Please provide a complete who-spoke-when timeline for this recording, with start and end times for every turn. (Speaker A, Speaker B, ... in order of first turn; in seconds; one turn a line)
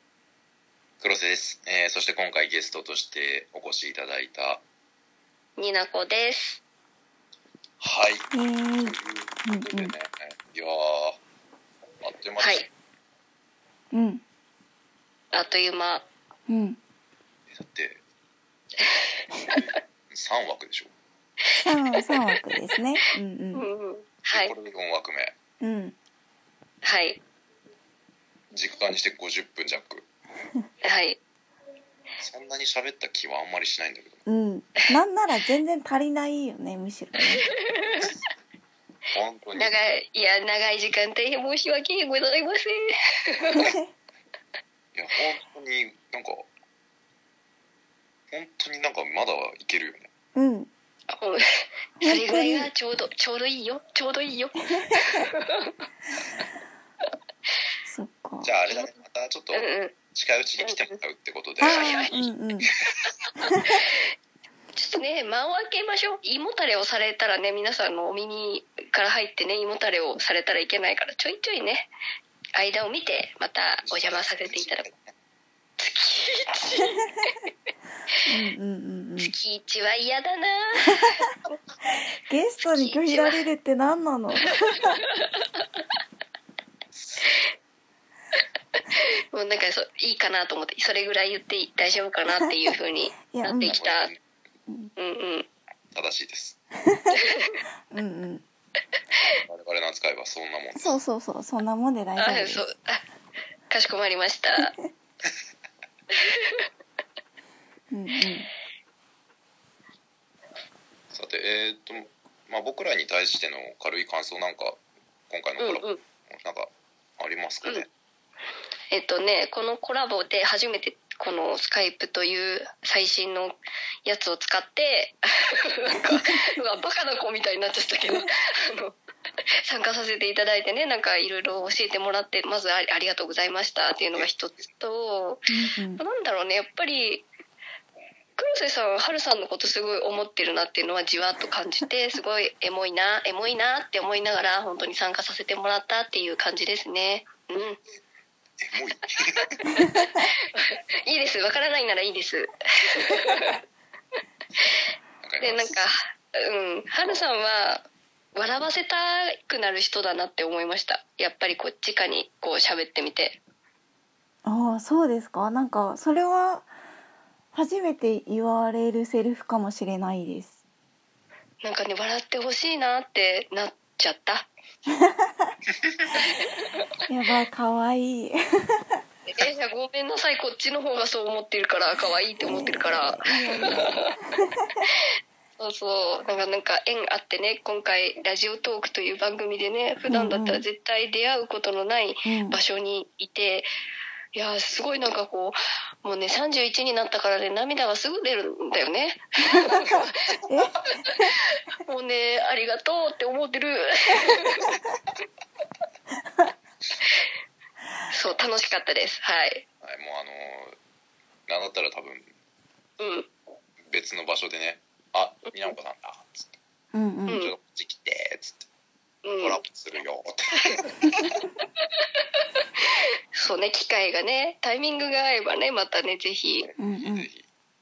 Speaker A: 1.0-4.6
Speaker B: 5.6-6.6
Speaker A: 7.8-8.3
Speaker C: 8.3-9.9
Speaker A: 8.8-11.2
Speaker A: 12.0-12.6
Speaker B: 12.4-12.7
Speaker C: 13.9-14.2
Speaker B: 15.3-16.0
Speaker C: 16.5-16.8
Speaker A: 17.5-18.0
Speaker B: 18.8-19.6
Speaker A: 19.6-20.9
Speaker B: 21.5-22.1
Speaker C: 21.5-23.7
Speaker B: 23.5-24.5
Speaker A: 24.3-25.3
Speaker C: 25.6-25.9
Speaker B: 26.8-27.2
Speaker A: 28.5-30.1
Speaker B: 30.8-31.2
Speaker A: 32.2-34.2
Speaker C: 34.2-37.5
Speaker B: 37.4-38.1
Speaker A: 39.1-39.7
Speaker B: 39.5-43.7
Speaker A: 44.9-46.5
Speaker A: 48.3-50.1
Speaker C: 50.3-50.7
Speaker B: 51.1-55.7
Speaker C: 52.0-52.7
Speaker C: 57.8-58.5
Speaker A: 58.4-62.3
Speaker B: 59.5-60.0
Speaker B: 60.6-60.9
Speaker C: 61.6-62.7
Speaker B: 61.7-62.1
Speaker C: 63.4-63.8
Speaker B: 64.7-71.9
Speaker B: 72.5-74.8
Speaker A: 73.8-75.1
Speaker B: 75.8-77.4
Speaker C: 78.2-79.3
Speaker B: 79.2-81.1
Speaker C: 82.3-85.0
Speaker B: 82.6-83.4
Speaker A: 86.9-87.3
Speaker B: 89.3-94.1
Speaker C: 93.3-93.8
Speaker A: 93.7-94.2
Speaker C: 94.7-94.9
Speaker B: 95.0-95.5
Speaker A: 95.9-96.6
Speaker C: 96.8-97.1
Speaker B: 97.1-97.5
Speaker C: 97.9-98.4
Speaker A: 99.5-101.0
Speaker C: 100.8-102.7
Speaker B: 102.2-103.0
Speaker B: 103.7-104.7
Speaker B: 106.2-106.6
Speaker C: 107.9-108.5
Speaker A: 111.1-117.9
Speaker B: 115.6-116.0
Speaker B: 118.9-128.9
Speaker B: 129.6-137.2
Speaker A: 134.1-134.7
Speaker C: 135.5-136.0
Speaker B: 138.4-147.8
Speaker A: 148.6-149.5
Speaker B: 149.7-153.6
Speaker A: 155.2-155.9
Speaker B: 155.4-163.4
Speaker C: 164.4-166.7
Speaker C: 167.5-170.6
Speaker B: 171.6-174.5
Speaker A: 175.8-176.1
Speaker B: 176.2-176.5
Speaker C: 177.1-178.4
Speaker B: 179.2-184.1
Speaker C: 182.4-184.7
Speaker B: 185.6-193.7
Speaker C: 190.1-190.7
Speaker C: 192.2-192.6
Speaker B: 194.3-200.3
Speaker C: 200.5-200.9
Speaker B: 201.8-204.8
Speaker B: 208.1-209.6
Speaker A: 209.8-210.8
Speaker A: 211.5-212.3
Speaker B: 213.0-213.3
Speaker A: 213.9-216.5
Speaker B: 215.5-215.7
Speaker C: 216.9-217.5
Speaker B: 217.3-217.5
Speaker A: 217.3-218.7
Speaker B: 219.2-219.6
Speaker A: 219.4-221.4
Speaker B: 223.4-226.7
Speaker A: 226.6-227.5
Speaker C: 226.8-227.3